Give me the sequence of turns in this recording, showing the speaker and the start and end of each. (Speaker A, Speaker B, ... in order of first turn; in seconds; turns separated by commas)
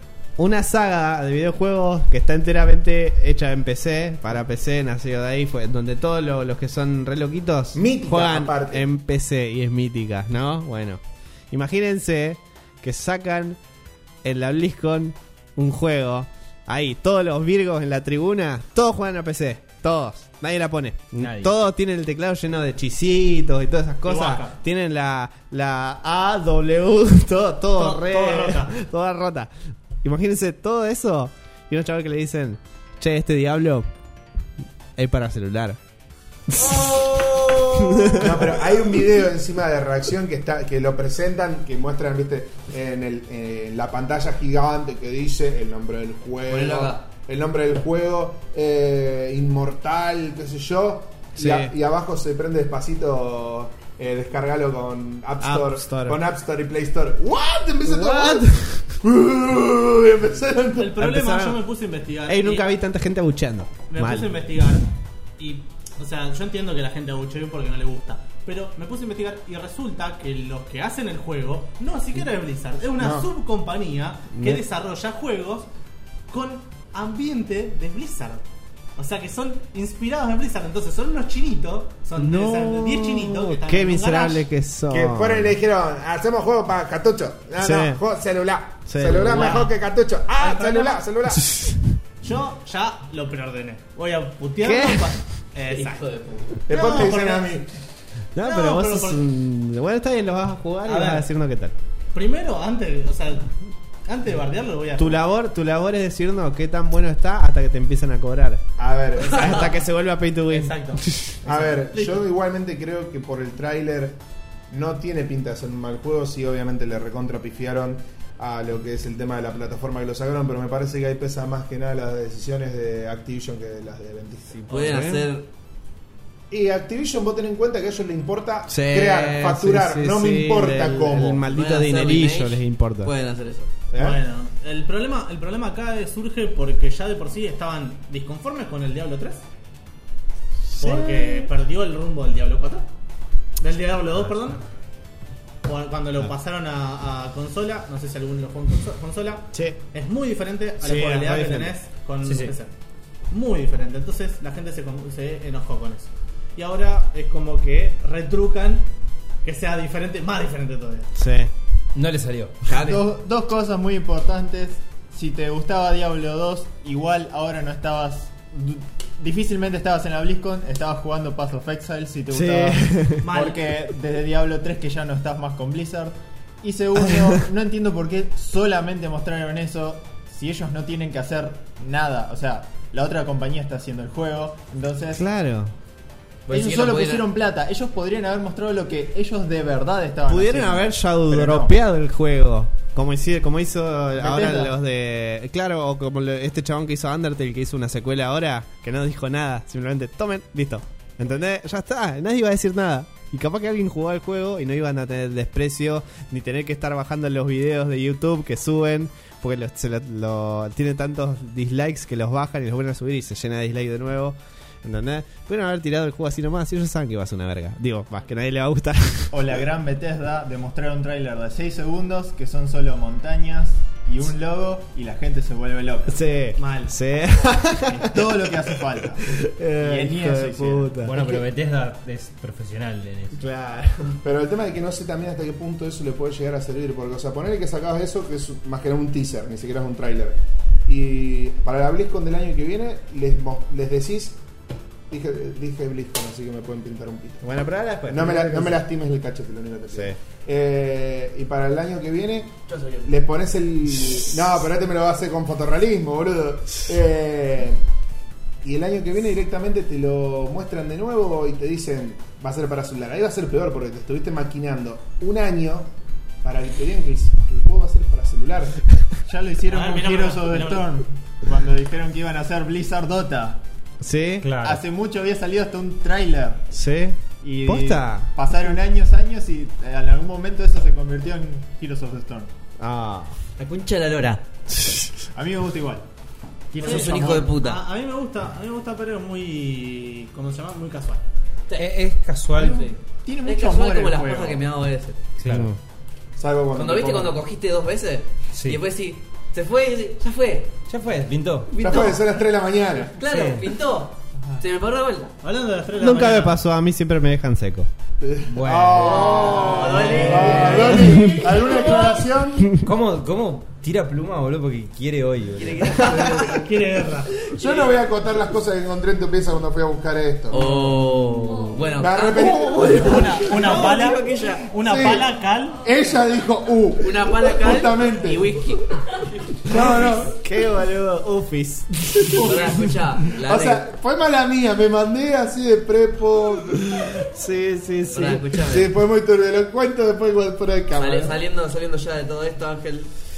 Speaker A: 0.4-13.6, Speaker B: 7.7-8.8, Speaker A: 14.2-29.5, Speaker C: 21.2-21.5, Speaker D: 24.0-24.6, Speaker D: 27.7-28.8, Speaker A: 30.0-33.9, Speaker A: 35.0-35.8, Speaker A: 36.5-36.8, Speaker E: 36.6-38.1, Speaker A: 37.8-38.5, Speaker B: 38.1-58.5, Speaker E: 46.5-47.0, Speaker A: 51.4-51.7, Speaker A: 55.4-56.2, Speaker A: 57.8-59.0, Speaker B: 59.0-61.0, Speaker D: 60.8-62.7, Speaker A: 61.0-61.6, Speaker A: 62.3-64.4, Speaker D: 63.9-64.9, Speaker D: 65.4-75.7, Speaker B: 73.0-73.3, Speaker A: 74.3-74.6, Speaker D: 76.3-78.4, Speaker D: 79.0-84.4, Speaker A: 82.2-85.6, Speaker B: 84.9-91.6, Speaker A: 87.6-88.0, Speaker A: 88.9-89.7, Speaker D: 89.2-89.7, Speaker D: 90.3-91.0, Speaker A: 91.5-91.8, Speaker D: 92.2-97.6, Speaker A: 94.6-95.2, Speaker E: 95.7-96.6, Speaker B: 96.7-97.7, Speaker A: 98.3-101.7, Speaker D: 98.4-99.2, Speaker D: 100.8-101.3, Speaker D: 102.1-103.5, Speaker D: 104.0-105.2, Speaker A: 105.0-108.6, Speaker B: 108.8-109.7, Speaker A: 109.2-111.4, Speaker D: 110.5-112.2, Speaker B: 111.4-114.2, Speaker B: 114.7-124.7, Speaker E: 124.7-125.5, Speaker A: 124.7-125.2, Speaker B: 126.5-131.4, Speaker A: 128.7-133.1, Speaker E: 131.5-133.7, Speaker B: 133.9-134.2, Speaker D: 133.9-139.4, Speaker A: 140.7-141.5, Speaker D: 140.8-142.8, Speaker D: 143.6-144.6, Speaker D: 145.6-152.7, Speaker A: 150.8-151.7, Speaker C: 152.2-152.5, Speaker D: 153.3-158.8, Speaker D: 159.4-161.1, Speaker A: 161.1-161.5, Speaker C: 161.9-162.8, Speaker E: 162.7-163.0, Speaker F: 162.7-185.2, Speaker A: 172.3-173.3, Speaker D: 173.2-173.7, Speaker A: 185.1-185.7, Speaker E: 186.5-187.2, Speaker F: 186.5-191.7, Speaker A: 190.3-219.5, Speaker F: 194.2-194.7, Speaker F: 219.3-226.2, Speaker A: 226.1-228.4, Speaker D: 226.6-226.9, Speaker F: 227.9-231.0, Speaker A: 229.2-231.4, Speaker C: 231.0-233.4, Speaker A: 233.3-234.2, Speaker B: 234.2-244.3, Speaker B: 245.1-247.4, Speaker A: 247.4-248.8, Speaker B: 248.1-257.8, Speaker A: 249.9-250.2, Speaker E: 252.7-253.1, Speaker B: 258.6-265.9, Speaker B: 266.4-268.8, Speaker F: 269.3-273.6, Speaker D: 269.7-270.9, Speaker A: 274.0-274.6, Speaker C: 274.4-274.8, Speaker F: 274.6-276.7, Speaker A: 276.7-278.3, Speaker F: 277.4-282.5, Speaker A: 282.8-283.4, Speaker E: 283.6-284.4, Speaker F: 285.3-286.1, Speaker E: 286.8-287.8, Speaker D: 286.8-291.2, Speaker B: 286.8-287.4, Speaker C: 286.9-287.3, Speaker C: 291.7-292.9, Speaker F: 292.6-294.6, Speaker E: 293.4-295.2, Speaker C: 295.4-295.7, Speaker A: 295.4-295.8, Speaker B: 296.4-297.4, Speaker E: 296.7-300.7, Speaker C: 298.5-298.8, Speaker C: 300.9-301.7, Speaker E: 301.7-302.3, Speaker B: 301.8-303.2, Speaker E: 303.2-305.3, Speaker C: 303.2-303.6, Speaker D: 305.4-306.6, Speaker A: 306.0-307.9, Speaker B: 308.2-312.8, Speaker C: 308.5-309.7, Speaker E: 308.9-311.3, Speaker D: 309.2-311.7, Speaker A: 310.6-311.6, Speaker C: 312.7-316.1, Speaker E: 315.6-316.6, Speaker D: 316.1-317.3, Speaker E: 317.5-318.1, Speaker B: 317.6-320.7, Speaker E: 320.5-324.7, Speaker B: 321.9-325.2, Speaker D: 322.9-325.8, Speaker B: 325.8-328.5, Speaker E: 327.0-328.9, Speaker B: 329.6-330.4, Speaker A: 329.7-332.7, Speaker D: 332.4-332.8, Speaker E: 332.4-333.9, Speaker B: 333.4-337.2, Speaker A: 336.8-338.6, Speaker E: 338.1-338.9, Speaker B: 338.6-341.4, Speaker E: 340.9-343.1